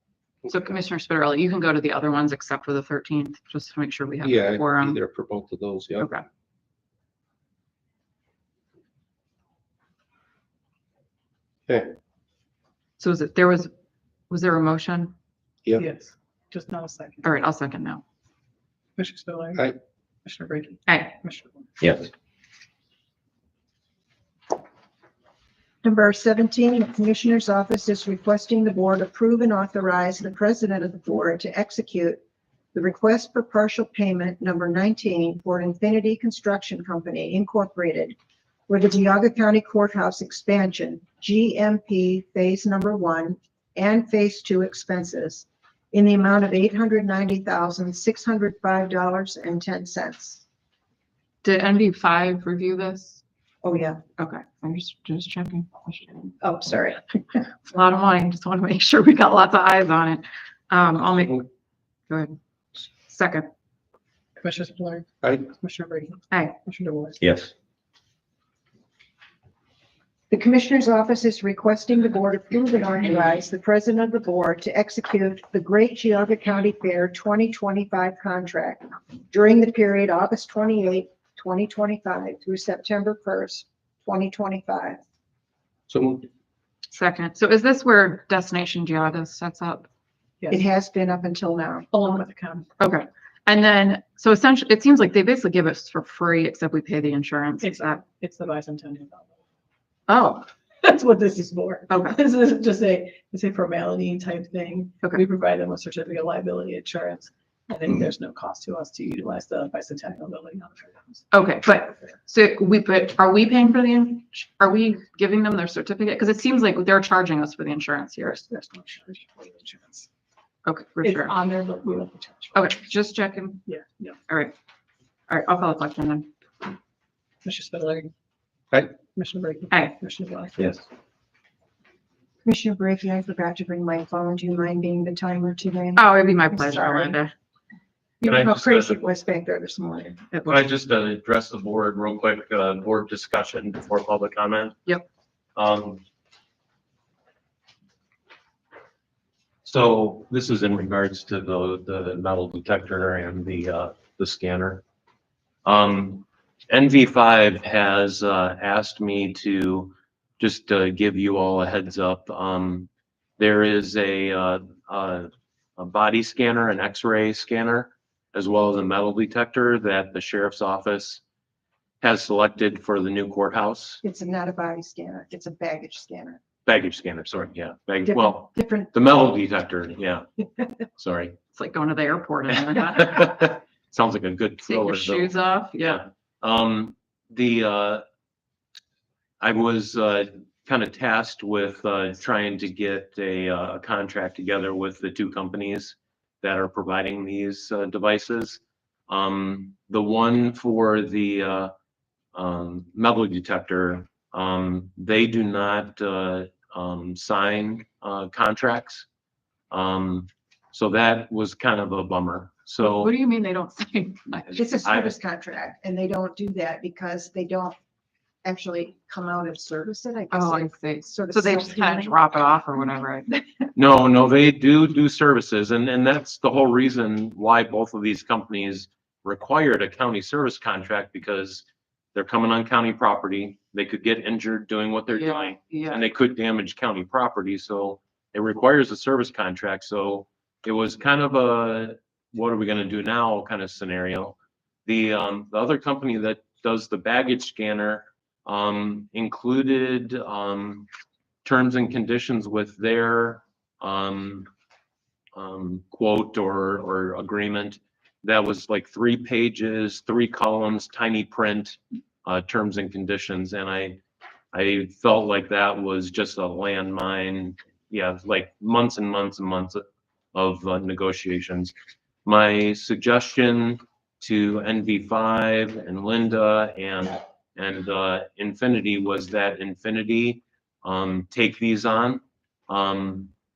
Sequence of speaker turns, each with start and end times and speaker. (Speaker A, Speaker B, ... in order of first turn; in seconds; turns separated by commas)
Speaker A: 0.5-5.0, Speaker B: 4.2-6.1, Speaker A: 6.0-6.2, Speaker B: 11.7-11.9, Speaker A: 13.0-13.7, Speaker A: 14.3-15.1, Speaker C: 15.8-17.3, Speaker A: 17.2-18.0, Speaker C: 19.0-19.7, Speaker C: 20.2-21.7, Speaker A: 20.9-21.2, Speaker D: 21.8-22.1, Speaker E: 25.8-32.2, Speaker E: 32.7-38.1, Speaker E: 38.7-50.4, Speaker A: 51.4-53.2, Speaker E: 53.6-54.0, Speaker A: 54.2-56.3, Speaker E: 56.4-57.4, Speaker A: 57.7-61.5, Speaker A: 62.1-62.4, Speaker A: 63.0-63.5, Speaker C: 64.4-67.2, Speaker D: 67.2-67.5, Speaker E: 70.3-85.0, Speaker B: 85.9-86.3, Speaker A: 86.9-89.9, Speaker E: 90.5-92.2, Speaker C: 91.9-92.7, Speaker A: 92.8-98.0, Speaker C: 97.6-99.3, Speaker A: 100.1-100.5, Speaker C: 100.8-111.2, Speaker A: 101.9-102.2, Speaker A: 111.3-118.4, Speaker C: 118.2-120.1, Speaker A: 120.6-121.3, Speaker C: 121.0-122.7, Speaker A: 122.5-123.6, Speaker C: 123.7-124.2, Speaker A: 124.3-124.5, Speaker A: 125.3-126.3, Speaker C: 127.4-128.1, Speaker C: 128.9-130.6, Speaker E: 132.4-137.2, Speaker A: 135.9-137.3, Speaker E: 138.2-140.2, Speaker D: 138.2-139.0, Speaker A: 140.3-140.6, Speaker D: 140.4-144.8, Speaker D: 145.6-146.0, Speaker D: 149.6-154.8, Speaker D: 155.6-171.2, Speaker D: 172.0-174.0, Speaker E: 174.0-176.4, Speaker D: 176.7-180.2, Speaker E: 178.0-179.1, Speaker D: 181.0-181.4, Speaker A: 181.5-183.4, Speaker D: 182.7-188.0, Speaker A: 184.7-186.0, Speaker D: 189.4-201.7, Speaker D: 202.3-209.1, Speaker D: 209.7-213.1, Speaker A: 212.8-214.6, Speaker D: 214.5-215.1, Speaker E: 214.5-217.8, Speaker E: 218.4-222.2, Speaker A: 220.3-223.3, Speaker D: 223.8-231.6, Speaker D: 232.1-250.9, Speaker A: 235.1-236.0, Speaker D: 251.4-254.5, Speaker D: 255.3-264.0, Speaker D: 264.5-269.8, Speaker D: 270.3-271.7, Speaker D: 272.2-283.3